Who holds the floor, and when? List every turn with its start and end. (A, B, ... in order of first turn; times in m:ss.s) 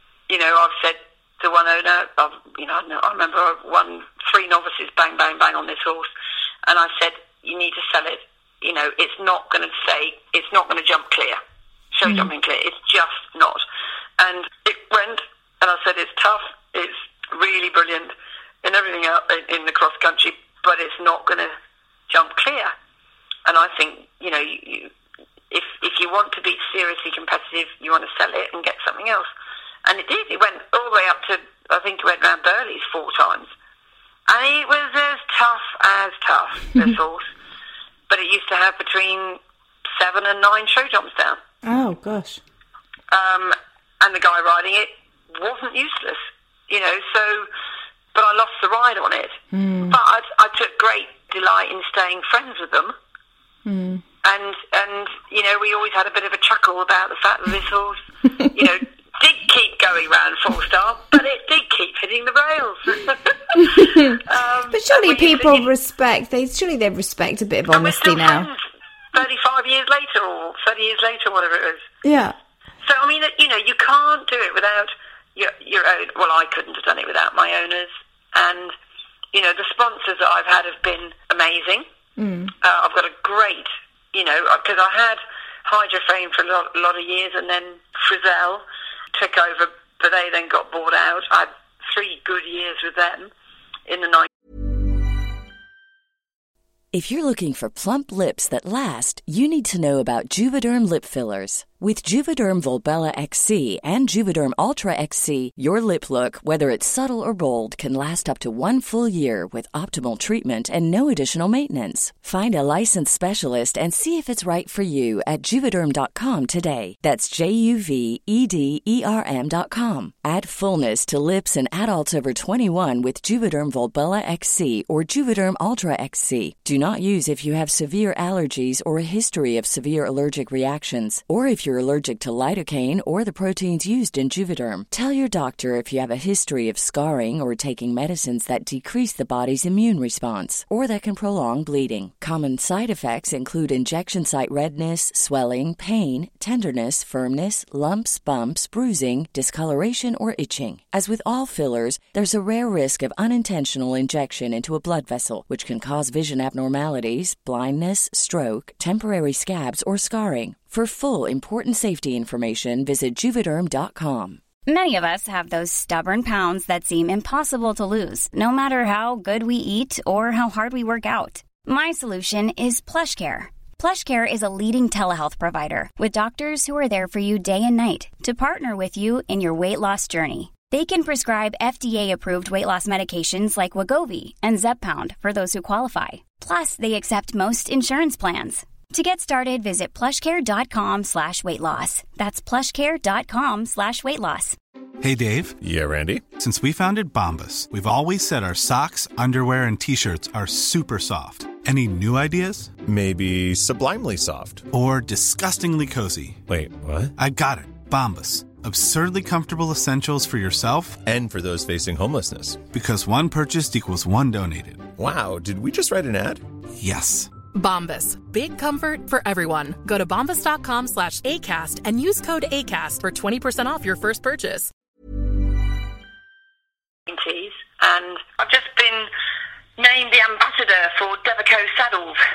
0:00.3-0:06.1 A
0:06.6-0:11.4 A
0:11.9-0:13.6 A
0:12.0-0:12.3 B
0:14.2-0:21.5 A
0:22.1-0:22.7 A
0:23.4-0:24.9 A
0:25.5-0:29.3 A
0:29.8-0:33.5 A
0:34.3-0:37.3 A
0:38.1-0:39.4 A
0:40.0-0:41.4 A
0:41.6-0:42.4 B
0:43.1-0:47.5 A
0:48.1-0:52.9 A
0:49.5-0:50.0 B
0:53.6-0:54.0 B
0:54.2-1:05.7 A
1:03.5-1:08.5 B
1:07.7-1:08.6 A
1:09.1-1:11.8 A
1:12.0-1:12.3 B
1:12.8-1:18.7 A
1:19.3-1:21.8 A
1:22.2-1:22.5 B
1:22.6-1:33.3 A
1:33.9-1:34.3 A
1:36.9-2:44.4 C
2:44.7-3:14.6 D
3:15.0-3:15.6 E
3:15.7-3:16.2 F
3:16.4-3:22.7 E
3:22.9-3:24.6 F
3:24.7-3:26.4 E
3:26.5-3:27.0 F
3:27.2-3:31.0 E
3:31.1-3:32.5 F
3:32.7-3:34.9 E
3:35.0-3:36.4 F
3:36.8-3:37.3 E
3:37.5-3:44.7 G
3:47.1-3:49.1 A
3:49.8-3:52.2 A